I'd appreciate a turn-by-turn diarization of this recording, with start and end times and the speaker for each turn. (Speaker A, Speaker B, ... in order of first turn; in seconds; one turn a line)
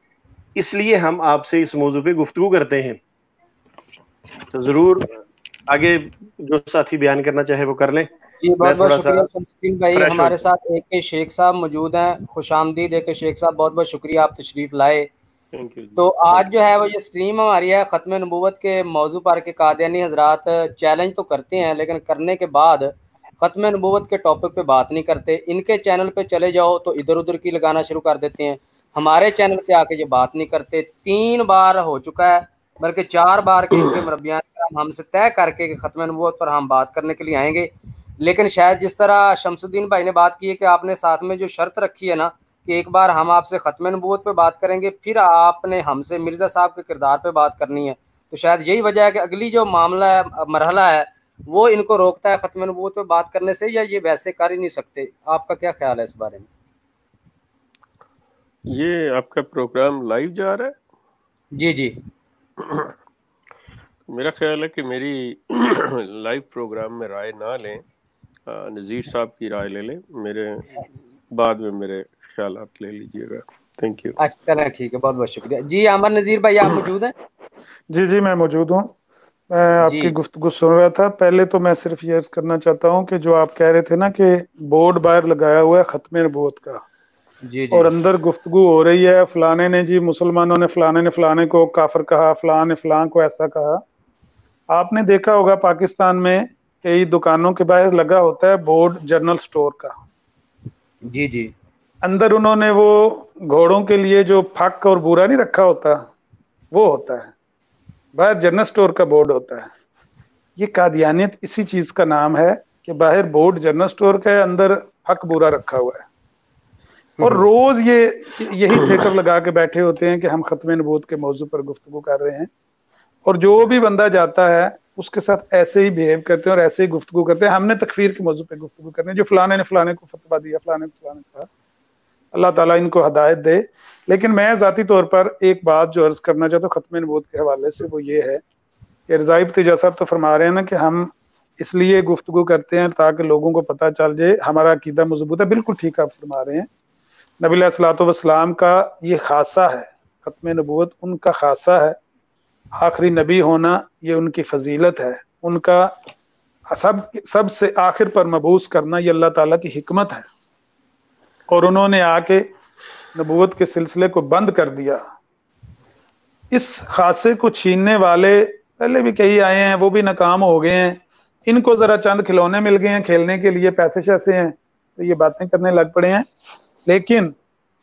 Speaker A: 0.6-3.0
Speaker A: 4.5-5.1
Speaker A: 5.7-8.1
Speaker B: 8.4-15.1
Speaker A: 8.6-9.3
Speaker A: 10.0-10.4
Speaker C: 15.5-16.5
Speaker B: 16.0-56.5
Speaker C: 58.7-60.8
Speaker B: 61.6-62.0
Speaker C: 62.6-62.9
Speaker C: 64.1-67.8
Speaker C: 68.5-74.2
Speaker B: 74.2-77.2
Speaker D: 77.9-78.9
Speaker D: 79.5-86.8
Speaker B: 79.8-80.1
Speaker B: 87.5-87.9
Speaker D: 87.7-93.8
Speaker D: 94.7-100.0
Speaker B: 101.1-101.5
Speaker D: 102.0-106.1
Speaker D: 106.7-107.3
Speaker D: 108.2-109.7
Speaker D: 110.6-116.0
Speaker D: 117.2-122.5
Speaker D: 123.2-131.5
Speaker D: 132.3-138.4
Speaker D: 139.1-146.7
Speaker D: 147.4-152.0
Speaker D: 152.8-155.9
Speaker D: 156.7-160.2
Speaker D: 161.5-162.5
Speaker D: 163.1-165.0
Speaker D: 166.5-176.3
Speaker D: 176.9-177.3